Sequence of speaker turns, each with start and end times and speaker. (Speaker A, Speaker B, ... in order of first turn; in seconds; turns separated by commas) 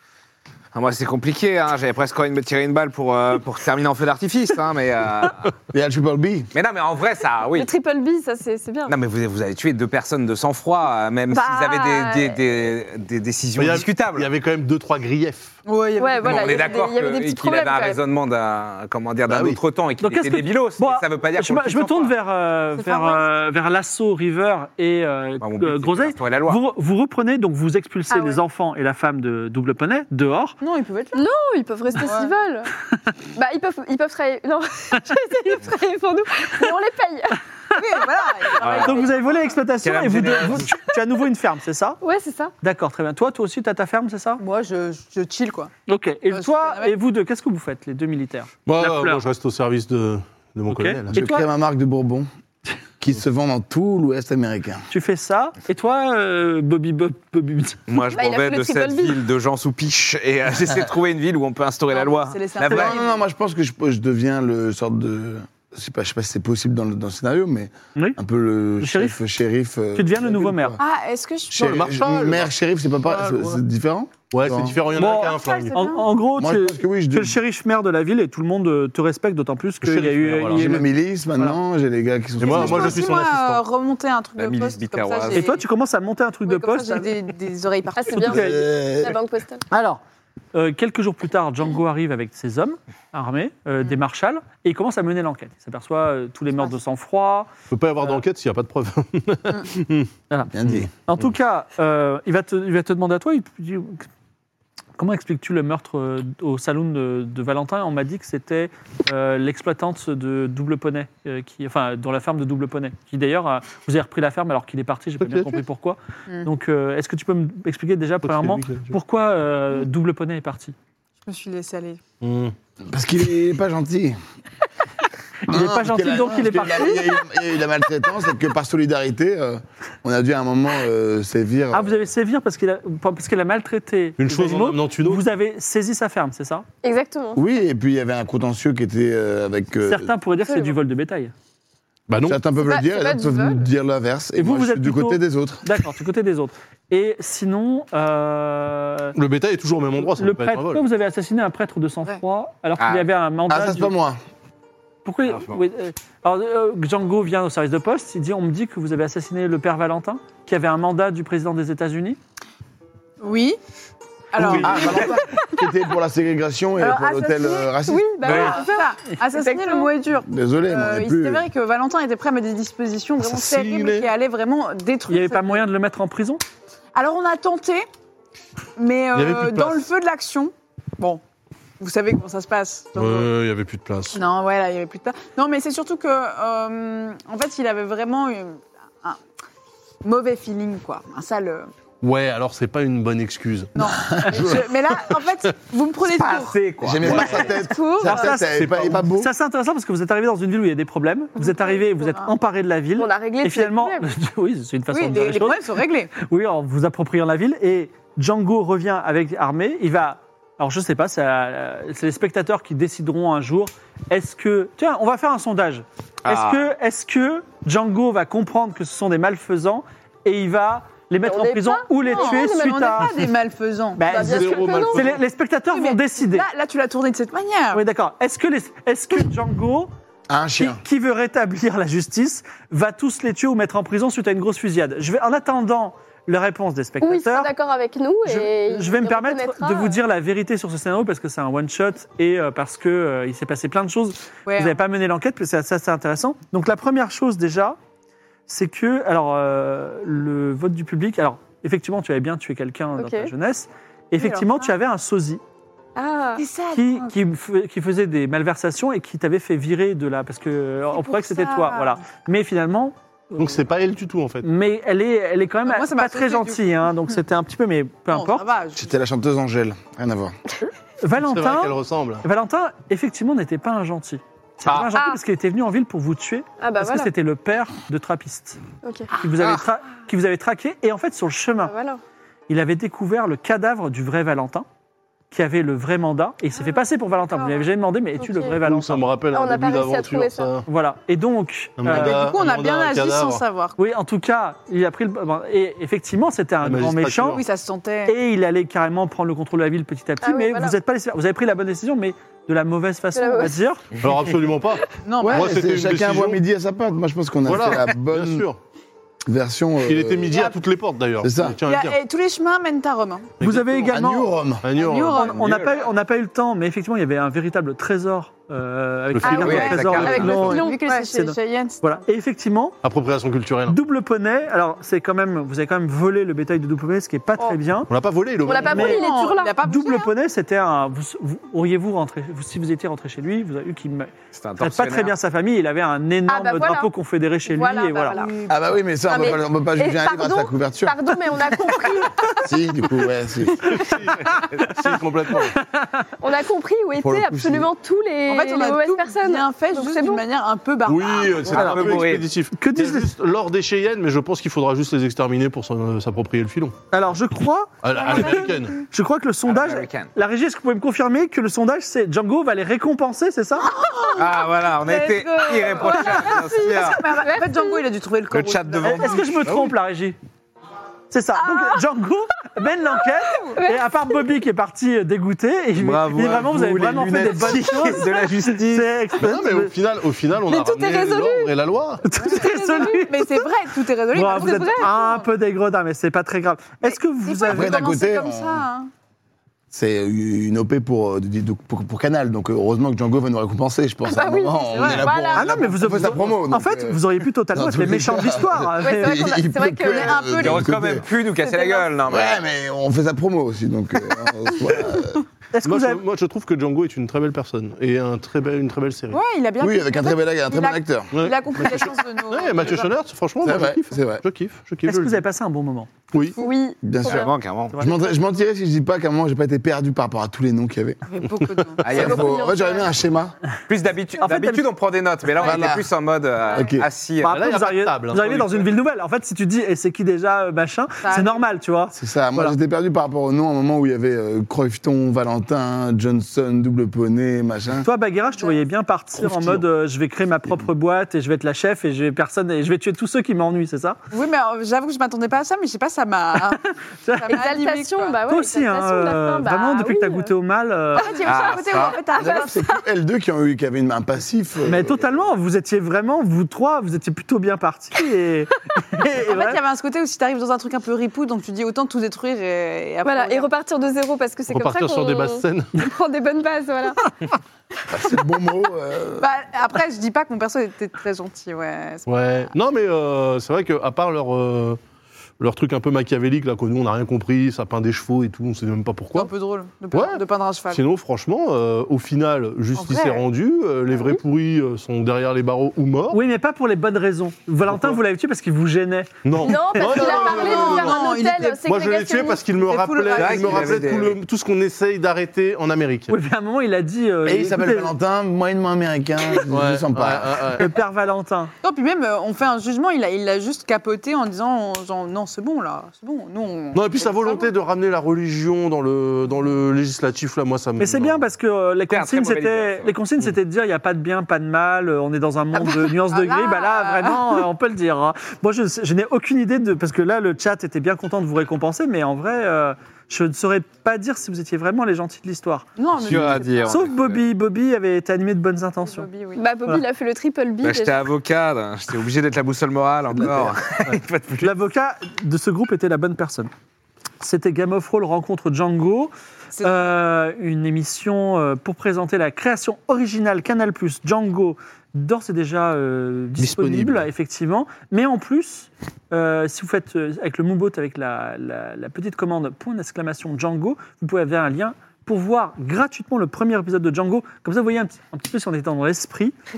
Speaker A: 0.7-5.5, Speaker B: 5.7-6.5, Speaker A: 6.5-7.7, Speaker C: 7.5-8.9, Speaker A: 8.9-14.3, Speaker C: 11.3-12.4, Speaker D: 13.6-15.6, Speaker E: 15.7-16.8, Speaker C: 16.0-18.0, Speaker A: 16.2-22.1, Speaker D: 19.3-19.6, Speaker F: 20.0-30.6, Speaker E: 22.8-23.3, Speaker A: 25.4-26.6, Speaker C: 28.1-28.4, Speaker E: 30.6-31.2, Speaker C: 31.1-32.7, Speaker E: 32.0-32.3, Speaker C: 33.4-37.4, Speaker E: 37.8-39.4, Speaker A: 38.6-39.0, Speaker F: 38.7-42.0, Speaker A: 39.8-40.7, Speaker C: 42.0-42.5, Speaker F: 42.6-44.4, Speaker E: 44.4-45.7, Speaker F: 45.9-49.2, Speaker E: 46.3-47.0, Speaker D: 48.7-51.2, Speaker F: 50.7-51.5, Speaker B: 51.1-52.3, Speaker B: 53.0-54.8, Speaker F: 54.9-57.9, Speaker A: 57.9-63.0, Speaker C: 58.1-59.2, Speaker E: 61.9-63.2, Speaker B: 62.7-70.8, Speaker F: 68.8-69.2, Speaker F: 70.0-70.8, Speaker E: 70.8-71.8, Speaker B: 71.5-74.8, Speaker D: 71.6-72.5, Speaker D: 73.2-73.5, Speaker D: 74.3-75.8, Speaker F: 75.0-81.6, Speaker E: 75.0-76.1, Speaker B: 76.4-77.4, Speaker D: 79.8-80.8, Speaker B: 80.5-83.0, Speaker D: 82.4-83.6, Speaker E: 82.5-85.6, Speaker A: 84.4-85.5, Speaker F: 85.3-87.1, Speaker E: 86.5-88.5, Speaker C: 88.0-89.7, Speaker B: 88.2-89.2, Speaker F: 88.2-88.5, Speaker F: 89.7-90.0, Speaker F: 90.5-97.5, Speaker D: 97.7-100.1, Speaker F: 100.3-104.1, Speaker B: 100.5-100.9, Speaker F: 105.0-120.8, Speaker D: 115.2-115.6, Speaker D: 118.2-119.0, Speaker E: 121.2-122.0, Speaker D: 122.2-122.5, Speaker B: 122.9-124.2, Speaker F: 125.5-127.1, Speaker B: 125.5-132.0, Speaker F: 131.7-136.7, Speaker D: 134.2-135.3, Speaker C: 136.8-137.4, Speaker B: 137.3-140.1, Speaker F: 139.9-141.3, Speaker C: 140.4-140.8, Speaker D: 142.1-142.5, Speaker B: 142.3-145.6, Speaker C: 142.6-143.6, Speaker F: 144.4-149.1, Speaker D: 149.2-150.8, Speaker F: 150.1-153.9, Speaker A: 152.8-153.1, Speaker B: 153.5-154.2, Speaker F: 155.1-162.2, Speaker A: 155.3-155.6, Speaker E: 163.2-163.6, Speaker E: 164.3-165.2, Speaker B: 164.4-168.2, Speaker A: 164.6-165.1, Speaker E: 166.8-175.7, Speaker C: 167.9-169.9, Speaker A: 168.2-168.6, Speaker B: 170.3-171.5, Speaker D: 173.2-174.1, Speaker F: 175.1-176.4, Speaker E: 176.9-177.9, Speaker E: 178.8-181.2, Speaker D: 179.1-179.8, Speaker E: 181.8-183.3, Speaker D: 183.0-184.2, Speaker E: 184.1-189.2, Speaker E: 190.0-191.7, Speaker D: 192.0-193.8, Speaker E: 193.8-198.3, Speaker B: 194.0-194.7, Speaker A: 196.1-197.5, Speaker B: 196.8-199.3, Speaker F: 198.0-223.1, Speaker D: 198.5-199.1, Speaker C: 203.0-204.1, Speaker E: 204.9-206.1, Speaker A: 216.2-216.7, Speaker C: 221.2-223.1, Speaker E: 222.1-224.7, Speaker F: 224.0-226.5, Speaker C: 224.1-225.1, Speaker D: 224.2-225.2, Speaker E: 225.7-227.8, Speaker F: 227.7-229.9, Speaker B: 230.3-230.8, Speaker F: 230.6-237.5, Speaker C: 237.0-240.0, Speaker F: 238.2-247.8, Speaker E: 244.5-244.8, Speaker F: 248.5-255.4, Speaker C: 253.0-253.3, Speaker E: 254.2-254.7, Speaker C: 256.0-256.4, Speaker E: 256.4-257.1, Speaker F: 256.7-263.6, Speaker E: 260.9-262.0, Speaker D: 263.4-264.5, Speaker F: 264.4-268.4, Speaker E: 265.6-266.9, Speaker E: 268.1-268.9, Speaker B: 268.8-270.4, Speaker F: 271.0-278.6, Speaker D: 271.2-272.2, Speaker C: 274.9-275.2, Speaker C: 276.6-277.1, Speaker C: 278.8-279.1, Speaker F: 279.2-281.7, Speaker A: 279.4-279.6, Speaker C: 281.6-282.0, Speaker F: 282.5-284.7, Speaker F: 285.3-289.0, Speaker C: 288.2-288.6, Speaker D: 288.6-290.7, Speaker C: 289.3-290.5, Speaker F: 290.7-292.2, Speaker D: 291.8-293.4, Speaker E: 291.9-293.8, Speaker F: 293.8-297.4, Speaker D: 296.6-297.4, Speaker E: 297.4-298.2, Speaker F: 298.1-303.9, Speaker C: 300.2-300.8, Speaker C: 303.1-303.6, Speaker D: 304.0-306.4, Speaker E: 305.0-305.5, Speaker B: 305.2-308.5, Speaker D: 307.4-308.6, Speaker B: 309.3-310.4, Speaker D: 309.8-312.0, Speaker E: 310.3-310.6, Speaker B: 311.2-311.6, Speaker E: 311.6-313.3, Speaker D: 313.4-313.9, Speaker F: 313.4-314.3, Speaker B: 313.9-314.7, Speaker D: 314.6-315.6, Speaker E: 314.8-315.4, Speaker F: 315.1-322.8, Speaker A: 315.4-315.9, Speaker D: 319.1-320.3, Speaker E: 319.2-322.0, Speaker A: 319.3-320.4, Speaker C: 319.4-321.1, Speaker D: 322.8-323.8, Speaker F: 323.7-327.9, Speaker D: 327.9-329.1, Speaker C: 328.4-329.6, Speaker E: 328.5-330.1, Speaker F: 328.7-329.0, Speaker F: 329.6-338.2, Speaker A: 334.3-335.1, Speaker C: 336.3-336.9, Speaker C: 337.5-338.3, Speaker E: 338.0-338.7, Speaker B: 338.5-341.0, Speaker C: 339.1-342.5, Speaker B: 342.4-343.9, Speaker D: 343.8-345.6, Speaker F: 344.3-345.0, Speaker F: 345.8-346.0, Speaker C: 346.2-350.2, Speaker B: 347.0-347.7, Speaker E: 348.3-351.8, Speaker D: 350.9-356.8, Speaker A: 351.5-352.3, Speaker F: 351.5-351.8, Speaker F: 352.6-353.1, Speaker F: 356.9-363.7, Speaker D: 357.8-358.8, Speaker E: 358.0-358.6, Speaker A: 359.4-360.1, Speaker E: 363.6-369.2, Speaker A: 364.2-367.0, Speaker C: 365.8-367.9, Speaker A: 368.3-369.7, Speaker F: 368.8-370.2, Speaker F: 371.1-379.7, Speaker C: 371.4-371.8, Speaker C: 373.5-373.8, Speaker A: 375.8-378.9, Speaker D: 376.1-377.8, Speaker D: 379.2-382.0, Speaker C: 380.4-381.6, Speaker F: 382.0-383.4, Speaker E: 382.1-385.3, Speaker F: 384.1-387.9, Speaker E: 386.9-388.9, Speaker B: 387.5-388.7, Speaker B: 389.7-401.0, Speaker C: 394.1-395.7, Speaker E: 394.7-395.7, Speaker F: 395.4-399.4, Speaker C: 398.8-400.3, Speaker E: 399.2-400.7, Speaker A: 400.4-402.4, Speaker C: 401.4-401.9, Speaker B: 402.1-405.2, Speaker F: 405.5-406.0, Speaker D: 405.6-409.2, Speaker E: 409.1-412.9, Speaker B: 409.6-411.1, Speaker D: 411.1-415.3, Speaker B: 413.4-414.2, Speaker F: 414.9-415.9, Speaker D: 416.1-416.4, Speaker C: 416.4-417.3, Speaker B: 416.8-421.0, Speaker A: 417.1-417.7, Speaker E: 421.1-422.2, Speaker A: 421.8-422.3, Speaker B: 421.9-423.3, Speaker C: 422.0-422.9, Speaker A: 423.7-427.4, Speaker F: 424.2-424.7, Speaker B: 425.4-425.9, Speaker B: 426.5-426.9, Speaker F: 427.2-432.6, Speaker D: 427.2-428.7, Speaker E: 431.0-431.4, Speaker B: 431.9-437.9, Speaker F: 437.8-444.0, Speaker E: 438.3-438.6, Speaker B: 439.2-439.6, Speaker E: 444.1-448.2, Speaker F: 447.0-447.4, Speaker C: 447.3-450.3, Speaker F: 448.3-451.2, Speaker E: 451.0-452.6, Speaker A: 451.2-452.0, Speaker B: 452.2-455.2, Speaker C: 452.2-452.5, Speaker F: 454.7-459.6, Speaker E: 459.2-463.5, Speaker C: 463.1-467.1, Speaker D: 464.5-465.8, Speaker B: 467.9-469.3, Speaker E: 469.2-472.5, Speaker D: 472.1-474.8, Speaker D: 475.4-479.3, Speaker E: 479.1-480.8, Speaker D: 479.9-486.2, Speaker E: 482.8-483.2, Speaker F: 486.1-489.7, Speaker D: 487.6-488.0, Speaker D: 489.2-491.1, Speaker C: 489.4-492.4, Speaker B: 489.8-490.6, Speaker E: 489.9-491.6, Speaker D: 491.6-496.1, Speaker E: 492.4-494.0, Speaker A: 493.1-494.2, Speaker F: 496.1-497.9, Speaker B: 497.2-500.6, Speaker D: 499.5-500.7, Speaker F: 500.6-501.5, Speaker E: 501.6-507.5, Speaker D: 506.7-511.3, Speaker F: 510.8-525.7, Speaker A: 511.9-513.0, Speaker E: 515.5-517.4, Speaker E: 525.8-526.8, Speaker A: 526.0-527.2, Speaker F: 526.7-529.1, Speaker E: 528.8-529.4, Speaker C: 529.4-531.1, Speaker A: 530.6-534.5, Speaker B: 533.1-533.6, Speaker F: 534.4-536.5, Speaker F: 537.2-559.4, Speaker D: 546.4-547.1